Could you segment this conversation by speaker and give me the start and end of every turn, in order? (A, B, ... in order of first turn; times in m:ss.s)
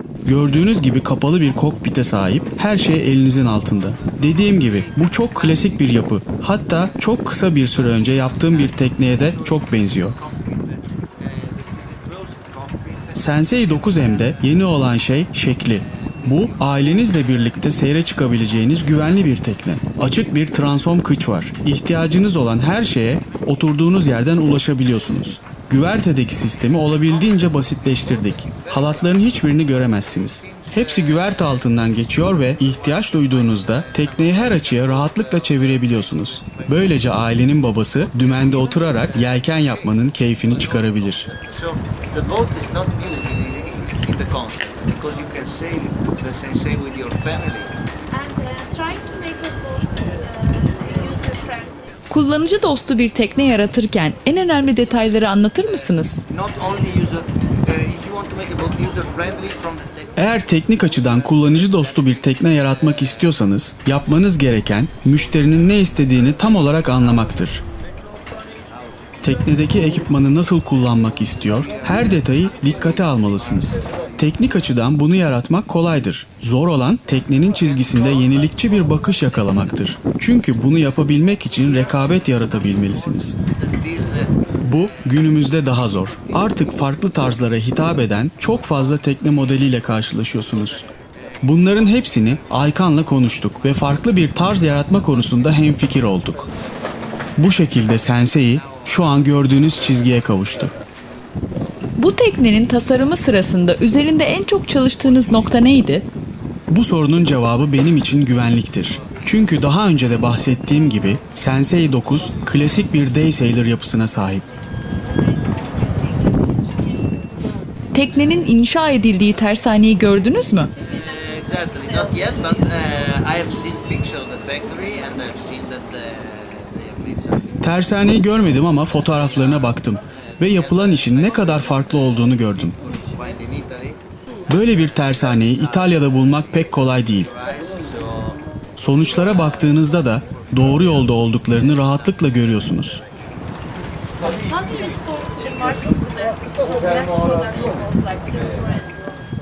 0:00.2-0:10.2 A
0:08.4-0:13.1 B
0:13.1-0:41.3 A
0:28.4-0:29.3 B
0:30.3-0:31.3 B
0:33.0-0:36.7 B
0:38.7-0:39.7 B
0:40.8-0:47.7 B
0:48.1-0:51.9 C
0:52.1-0:56.2 D
0:56.3-1:00.1 B
1:00.2-1:07.6 A
1:09.2-1:23.3 A
1:13.7-1:14.1 B
1:23.6-1:24.3 B
1:24.6-1:30.8 A
1:31.4-1:36.5 A
1:37.4-1:40.7 A
1:42.0-1:46.0 D
1:46.7-1:54.4 A
1:55.3-1:57.2 C
1:57.9-2:00.7 D
2:00.8-2:07.6 B
2:07.6-2:12.8 A
2:10.8-2:11.5 B
2:12.8-2:14.0 B
2:14.5-2:17.3 A
2:17.3-2:18.4 B
2:18.8-2:23.0 A
2:24.2-2:28.9 C